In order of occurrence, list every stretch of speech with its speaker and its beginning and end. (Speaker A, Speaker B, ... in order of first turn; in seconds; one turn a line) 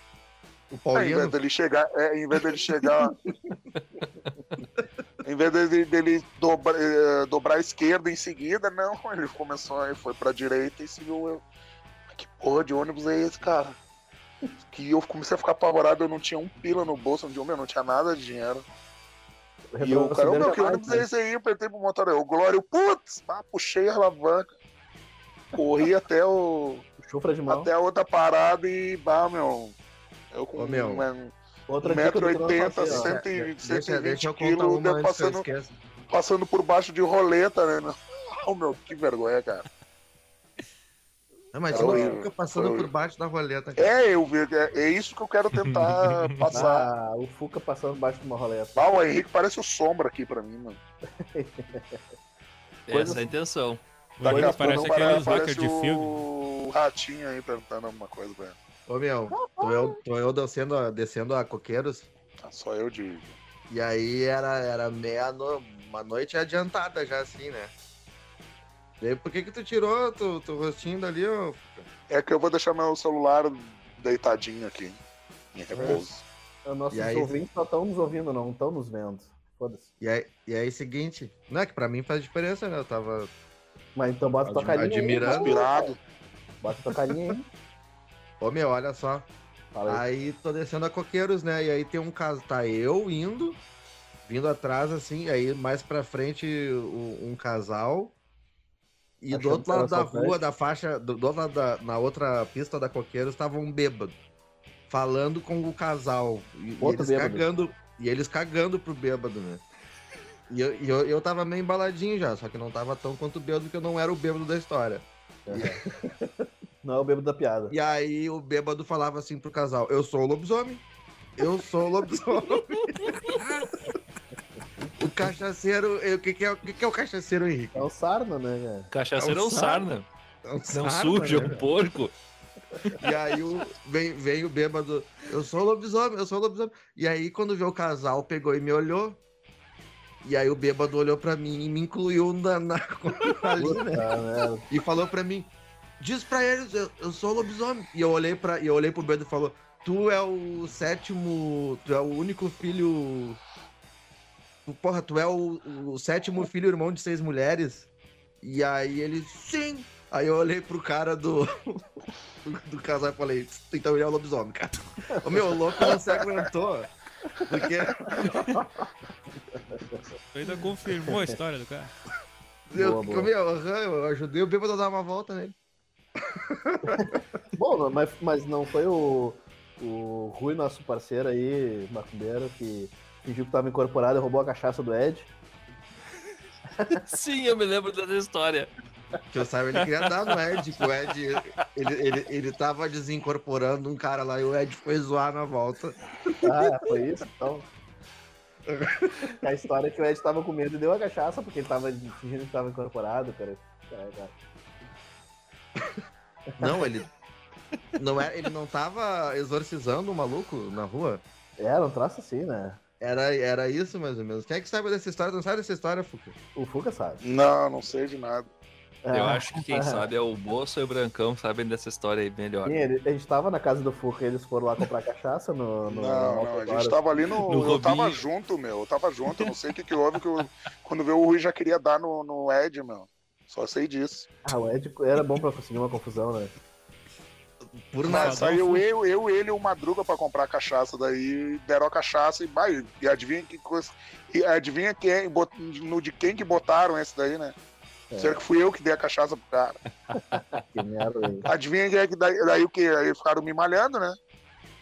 Speaker A: 0.7-1.4
Speaker B: 0.9-3.2
Speaker B: 5.2-11.4
Speaker B: 12.1-13.8
Speaker B: 14.7-18.6
Speaker C: 19.8-21.1
Speaker B: 19.8-24.5
Speaker B: 25.6-26.9
Speaker C: 27.0-27.7
Speaker B: 27.5-29.8
Speaker B: 30.3-35.4
Speaker A: 30.6-31.1
Speaker C: 31.7-33.2
Speaker A: 32.9-35.7
Speaker B: 36.1-39.7
Speaker A: 41.5-43.9
Speaker C: 41.7-42.1
Speaker B: 41.7-42.9
Speaker B: 43.8-46.9
Speaker D: 45.6-46.3
Speaker C: 46.5-48.8
Speaker B: 48.8-50.8
Speaker C: 51.2-52.0
Speaker D: 52.9-53.8
Speaker C: 52.9-53.3
Speaker E: 54.2-56.3
Speaker C: 54.2-55.4
Speaker B: 54.2-58.6
Speaker A: 58.9-62.1
Speaker C: 59.3-60.0
Speaker B: 62.4-63.4
Speaker A: 63.7-67.7
Speaker A: 69.0-71.9
Speaker B: 72.1-75.0
Speaker B: 75.5-76.2
Speaker A: 75.7-76.1
Speaker C: 76.7-79.9
Speaker A: 76.9-77.4
Speaker A: 80.0-83.3
Speaker C: 84.0-85.8
Speaker A: 84.5-85.6
Speaker B: 85.3-86.0
Speaker C: 86.6-87.5
Speaker A: 88.4-89.3
Speaker C: 89.7-90.0
Speaker A: 89.9-93.6
Speaker A: 94.2-98.2
Speaker A: 99.2-104.2
Speaker C: 99.3-100.4
Speaker A: 104.9-109.6
Speaker C: 106.8-107.5
Speaker A: 110.5-115.8
Speaker C: 115.5-116.3
Speaker C: 116.8-117.8
Speaker A: 117.7-120.8
Speaker A: 121.4-123.8
Speaker A: 125.0-127.9
Speaker C: 127.7-128.9
Speaker D: 128.9-130.1
Speaker A: 129.2-129.9
Speaker A: 130.4-131.7
Speaker D: 130.7-132.2
Speaker A: 133.0-139.2
Speaker A: 140.2-144.0
Speaker C: 143.6-144.7
Speaker A: 144.7-153.4
Speaker A: 154.7-157.9
Speaker A: 158.4-161.8
Speaker A: 162.4-166.9
Speaker C: 165.1-165.6
Speaker A: 167.5-168.6
Speaker C: 169.5-170.0
Speaker E: 170.3-171.9
Speaker C: 171.1-171.3
Speaker A: 172.7-175.6
Speaker C: 172.8-173.3
Speaker A: 176.3-177.2
Speaker C: 176.9-185.3
Speaker C: 186.8-187.0
Speaker D: 187.0-188.7
Speaker A: 189.3-196.5
Speaker D: 190.2-190.6
Speaker C: 196.4-197.7
Speaker A: 198.7-199.3
Speaker C: 199.4-204.3
Speaker A: 206.6-207.1
Speaker A: 208.0-211.2
Speaker C: 211.6-212.8
Speaker A: 213.0-216.3
Speaker C: 216.6-217.2
Speaker B: 217.2-218.5
Speaker C: 219.0-220.0
Speaker D: 219.1-222.9
Speaker C: 222.7-227.2
Speaker B: 225.9-234.3
Speaker D: 227.5-228.2
Speaker C: 234.4-236.5
Speaker A: 237.8-238.5
Speaker E: 238.0-238.8
Speaker B: 238.1-247.6
Speaker C: 248.1-248.4
Speaker B: 248.2-249.8
Speaker C: 250.1-251.5
Speaker B: 251.5-254.2